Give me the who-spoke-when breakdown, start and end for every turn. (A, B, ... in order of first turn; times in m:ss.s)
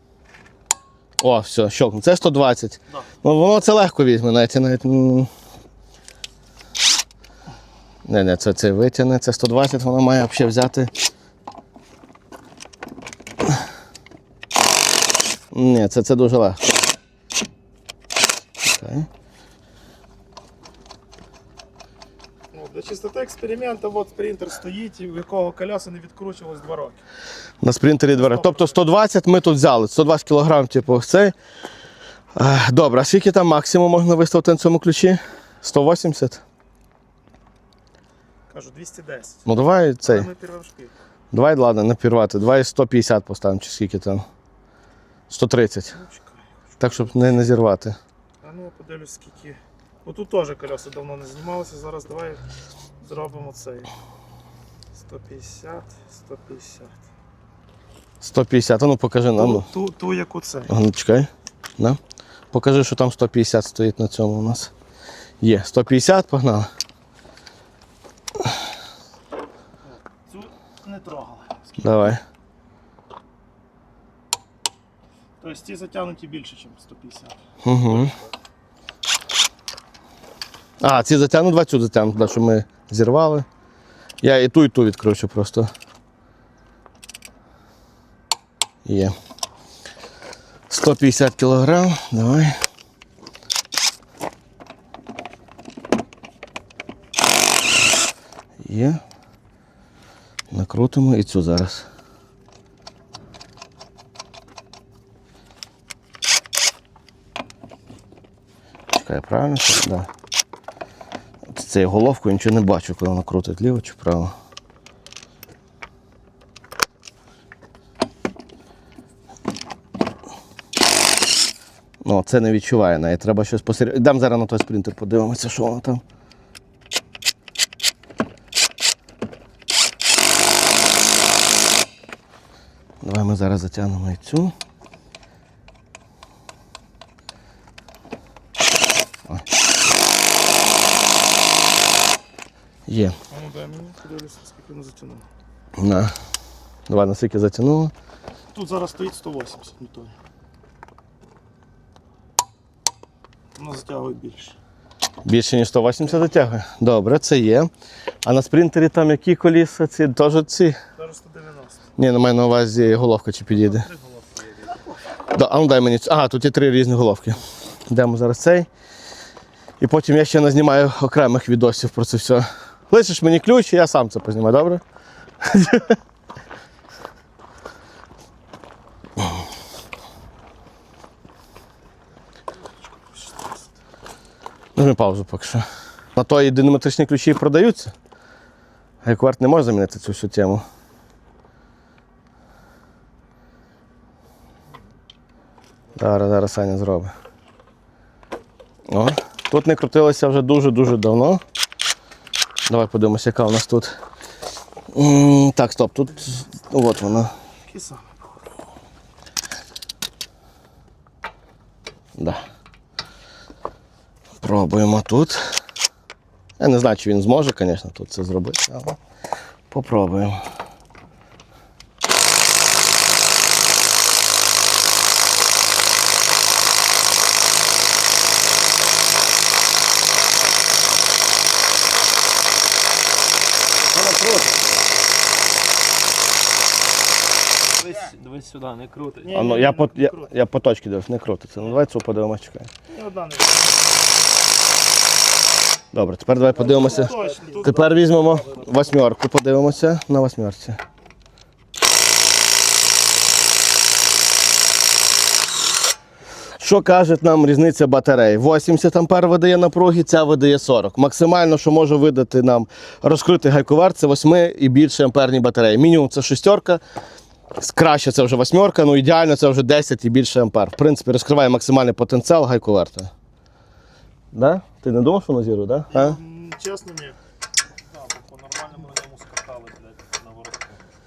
0:01.2-0:05.3 A
0:08.0-0:10.9 A
0:15.5-0:16.6 A
0:18.6-0:19.1 A
0:22.5-0:27.0 B
0:27.6-0:31.4 A
0:28.2-0:28.8 B
0:32.4-0:36.4 A
0:38.5-0:39.5 B
0:39.5-0:40.3 A
0:40.0-0:40.9 B
0:41.3-0:44.3 A
0:45.3-0:46.0 A
0:45.9-0:47.4 B
0:46.8-0:48.0 A
0:48.4-0:52.4 B
0:53.0-0:53.9 B
0:54.9-0:57.0 B
0:58.2-0:59.7 A
0:59.4-1:00.7 B
1:00.7-1:02.0 A
1:02.5-1:04.7 A
1:05.4-1:06.7 A
1:10.1-1:12.2 B
1:11.8-1:12.2 A
1:15.4-1:17.4 B
1:17.6-1:18.2 A
1:20.8-1:23.5 A
1:24.2-1:25.7 A
1:28.8-1:29.1 A
1:30.7-1:32.6 A
1:38.6-1:39.0 A
1:40.5-1:41.9 A
1:48.9-1:50.1 A
1:51.5-1:54.3 A
2:02.0-2:06.0 A
2:13.0-2:14.5 A
2:22.9-2:23.2 A
2:23.3-2:25.3 B
2:25.8-2:26.1 A
2:26.9-2:27.9 A
2:28.5-2:30.2 B
2:33.6-2:34.6 B
2:35.2-2:37.7 A
2:38.2-2:40.8 A
2:41.0-2:41.9 B
2:42.0-2:43.9 A
2:45.3-2:48.7 A
2:49.8-2:54.8 A
2:55.4-2:56.0 A
3:04.8-3:07.9 A
3:09.0-3:10.6 A
3:16.0-3:17.1 A
3:18.9-3:21.4 A
3:22.7-3:23.9 A
3:24.9-3:27.3 A
3:27.6-3:28.3 B
3:32.2-3:32.4 A
3:34.4-3:35.6 A
3:36.6-3:39.0 A
3:39.7-3:40.4 A
3:53.9-3:54.9 C
3:57.8-3:59.3 C
3:59.2-4:00.3 B
3:59.3-4:02.7 A
4:02.9-4:03.9 B
4:05.9-4:10.8 A
4:06.6-4:08.2 B
4:06.7-4:07.3 C
4:16.6-4:26.8 A
4:27.6-4:33.1 A
4:34.3-4:36.2 A
4:35.9-4:37.2 B
4:38.0-4:38.6 B
4:38.6-4:40.8 C